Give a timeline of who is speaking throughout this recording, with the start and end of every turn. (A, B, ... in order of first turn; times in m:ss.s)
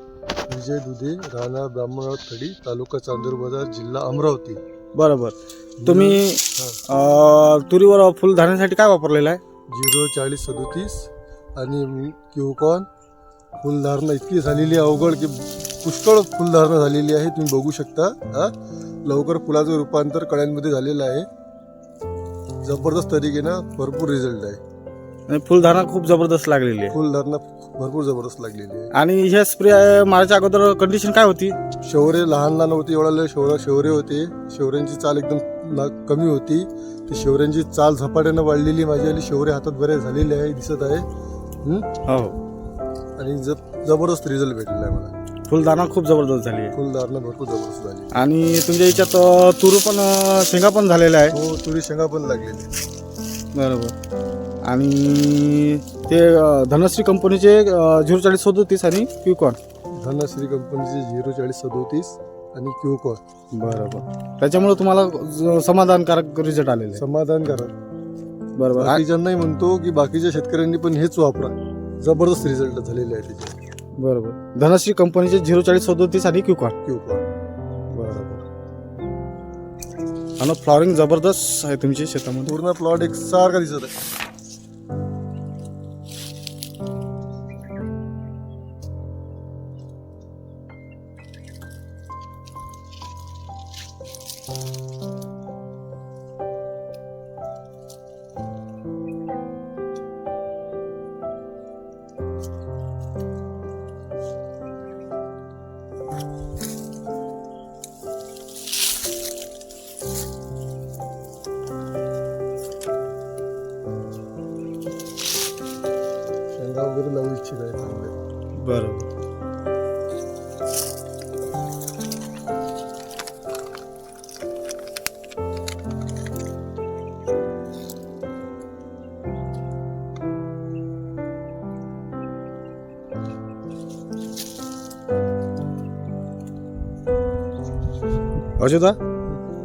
0:00.5-0:04.6 A
0:05.0-0:09.4 B
0:05.8-0:06.8 A
0:09.7-0:12.9 A
0:13.6-0:18.5 A
0:19.0-0:21.3 A
0:22.6-0:24.6 A
0:25.3-0:27.0 B
0:26.9-0:28.9 A
0:28.9-0:31.6 B
0:31.8-0:41.1 A
0:42.1-0:42.4 B
0:43.2-0:45.1 A
0:45.5-0:46.8 B
0:46.7-0:48.1 A
0:48.1-0:51.4 B
0:51.3-0:52.7 A
0:53.6-0:53.9 B
0:54.6-0:59.6 B
1:00.0-1:03.2 A
1:03.5-1:07.0 B
1:07.0-1:07.7 A
1:08.6-1:09.0 B
1:08.8-1:13.6 A
1:14.0-1:16.8 B
1:16.8-1:17.2 A
1:17.9-1:18.4 B
1:20.4-1:22.6 B
1:22.4-1:23.9 A
1:56.6-1:58.1 A
1:58.6-1:59.1 B
2:18.6-2:19.0 B